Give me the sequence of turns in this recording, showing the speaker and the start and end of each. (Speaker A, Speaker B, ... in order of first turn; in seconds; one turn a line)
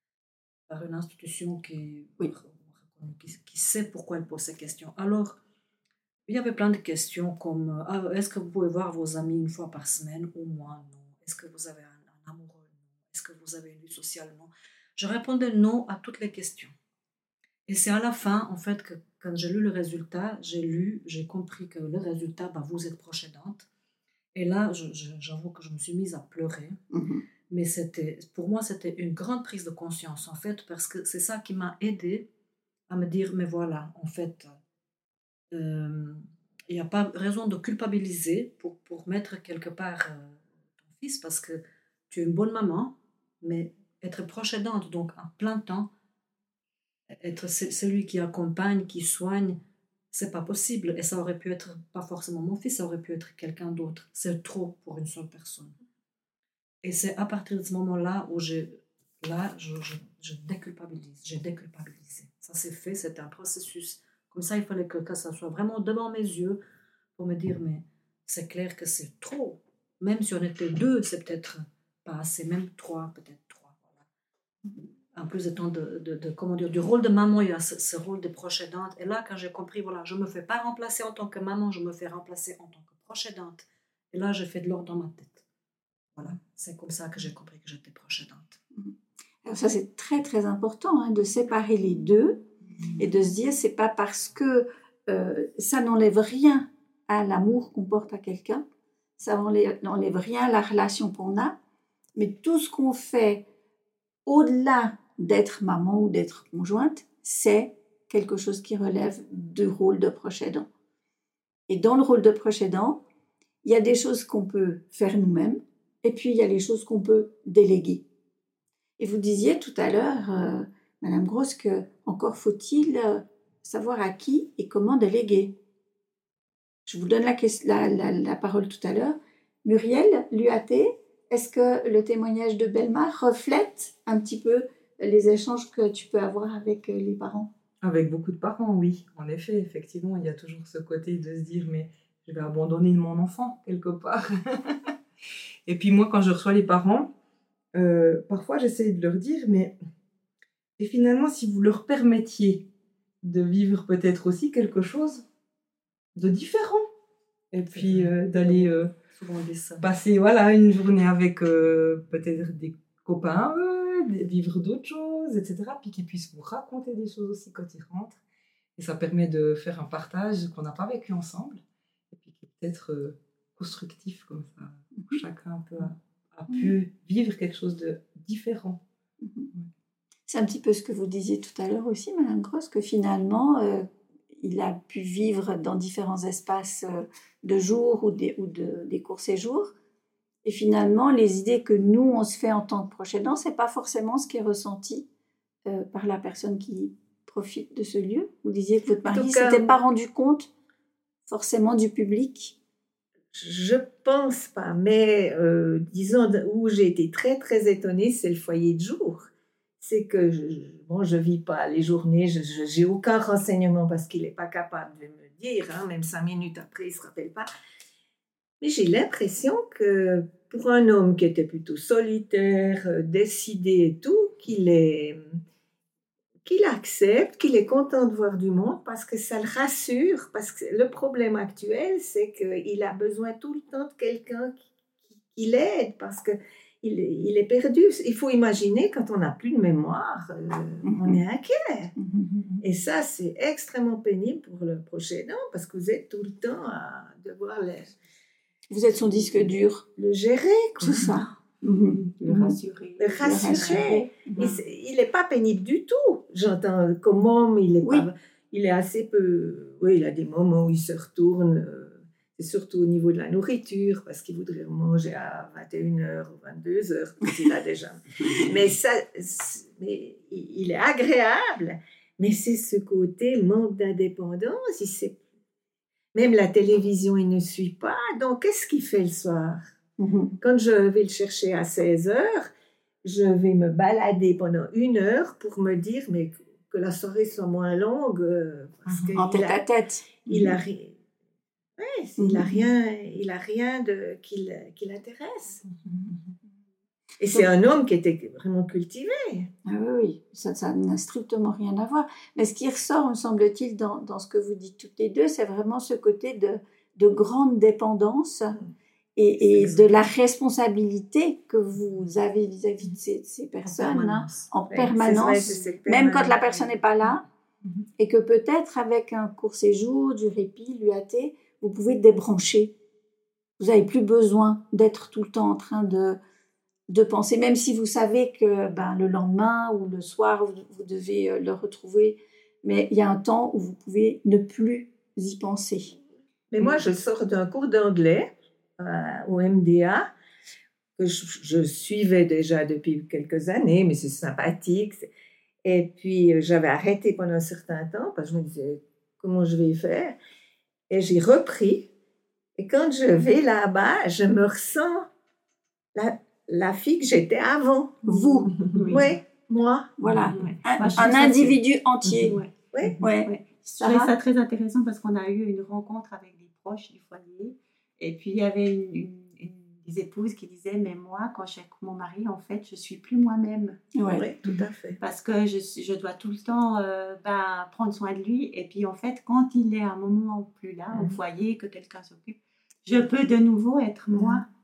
Speaker A: 0.7-5.4
Speaker A: 6.3-16.7
Speaker A: 17.7-23.7
Speaker A: 24.3-26.8
Speaker B: 26.9-27.2
Speaker A: 27.5-32.3
Speaker A: 32.9-34.5
Speaker A: 35.5-45.9
Speaker A: 47.2-49.6
Speaker A: 50.1-55.7
Speaker A: 56.8-66.6
Speaker A: 67.2-74.0
Speaker A: 75.1-85.4
Speaker A: 86.2-88.6
Speaker B: 89.4-98.6
Speaker B: 99.2-101.5
Speaker B: 102.2-103.5
Speaker B: 104.2-110.7
Speaker B: 111.7-113.0
Speaker B: 113.6-118.0
Speaker B: 119.0-125.5
Speaker B: 126.8-137.5
Speaker C: 137.8-144.8
Speaker C: 145.7-147.1
Speaker C: 147.7-149.7
Speaker C: 150.8-152.7
Speaker C: 153.2-155.2
Speaker C: 156.1-156.9
Speaker C: 157.5-158.9
Speaker A: 157.7-159.9
Speaker C: 159.8-168.2
Speaker C: 168.8-178.8
Speaker B: 174.9-175.2
Speaker B: 179.2-179.5
Speaker B: 180.3-189.7
Speaker B: 190.4-195.1
Speaker B: 195.7-200.5
Speaker D: 199.0-199.8
Speaker B: 201.3-202.6
Speaker D: 203.3-217.5
Speaker D: 218.6-225.4
Speaker D: 226.4-234.6
Speaker D: 235.3-241.9
Speaker B: 240.8-241.2
Speaker B: 241.9-242.6
Speaker D: 242.6-247.9
Speaker B: 248.7-249.8
Speaker D: 249.9-251.2
Speaker B: 250.8-252.6
Speaker E: 251.9-254.6
Speaker D: 253.0-275.2
Speaker B: 253.2-254.3
Speaker B: 257.8-258.1
Speaker D: 276.1-279.6
Speaker B: 280.0-280.3
Speaker D: 280.4-282.5
Speaker D: 283.0-289.6
Speaker B: 289.1-290.6
Speaker D: 290.2-291.0
Speaker D: 291.8-295.6
Speaker B: 292.2-292.6
Speaker B: 295.8-296.2
Speaker D: 297.2-299.5
Speaker B: 299.6-308.6
Speaker B: 309.1-317.2
Speaker A: 313.6-314.5
Speaker D: 314.7-316.4
Speaker B: 318.0-322.8
Speaker B: 323.6-326.2
Speaker B: 326.9-335.9
Speaker D: 336.5-340.1
Speaker D: 341.0-345.1
Speaker D: 345.6-350.2
Speaker D: 350.9-351.9
Speaker D: 352.6-355.1
Speaker D: 355.9-358.2
Speaker B: 358.1-359.0
Speaker E: 358.1-359.1
Speaker D: 358.9-359.9
Speaker B: 360.0-362.4
Speaker E: 360.3-361.6
Speaker E: 362.2-373.8
Speaker D: 362.7-363.0
Speaker B: 363.0-364.1
Speaker B: 373.9-374.2
Speaker D: 374.1-375.0
Speaker E: 375.0-384.5